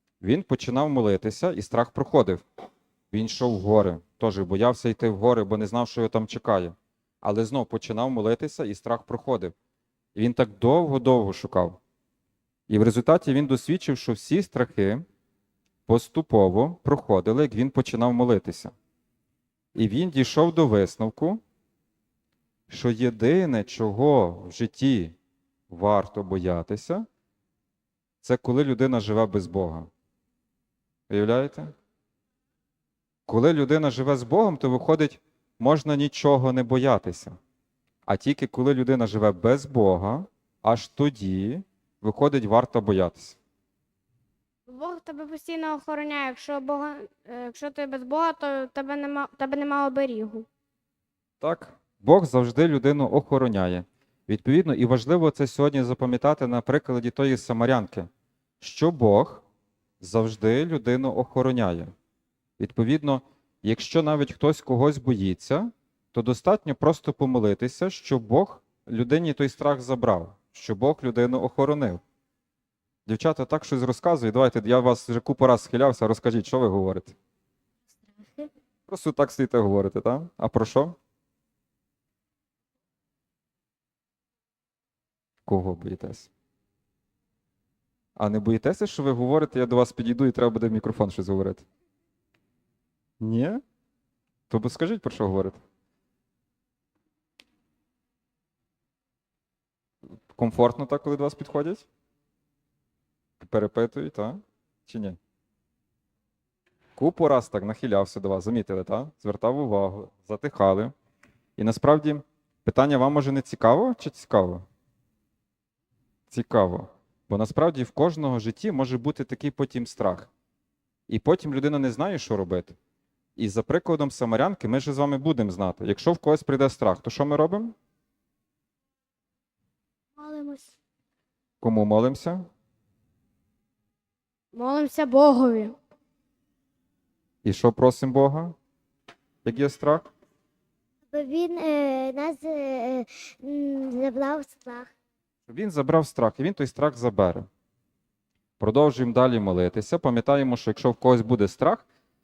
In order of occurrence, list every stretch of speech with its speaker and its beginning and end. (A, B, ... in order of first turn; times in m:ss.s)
0:00.2-0:02.4 A
0:03.1-0:09.6 A
0:10.2-0:11.8 A
0:12.7-0:15.0 A
0:15.9-0:18.7 A
0:19.8-0:21.4 A
0:22.7-0:25.2 A
0:25.7-0:27.1 A
0:28.2-0:29.9 A
0:31.1-0:31.7 A
0:33.3-0:37.4 A
0:38.1-0:43.4 A
0:44.7-0:50.5 B
0:51.4-0:58.1 A
0:58.6-0:59.4 A
1:00.0-1:01.9 A
1:02.6-1:12.0 A
1:13.1-1:17.2 A
1:18.9-1:21.0 A
1:25.5-1:26.3 A
1:28.2-1:31.7 A
1:33.2-1:33.6 A
1:34.5-1:35.6 A
1:40.3-1:41.9 A
1:43.4-1:45.2 A
1:47.0-1:50.9 A
1:51.6-1:54.6 A
1:56.3-2:00.3 A
2:01.1-2:02.8 A
2:03.4-2:07.8 A
2:10.2-2:10.7 C
2:11.6-2:12.5 A
2:14.5-2:15.8 B
2:17.4-2:18.6 A
2:19.4-2:20.1 A
2:21.1-2:24.9 C
2:25.5-2:27.5 A
2:28.6-2:31.9 A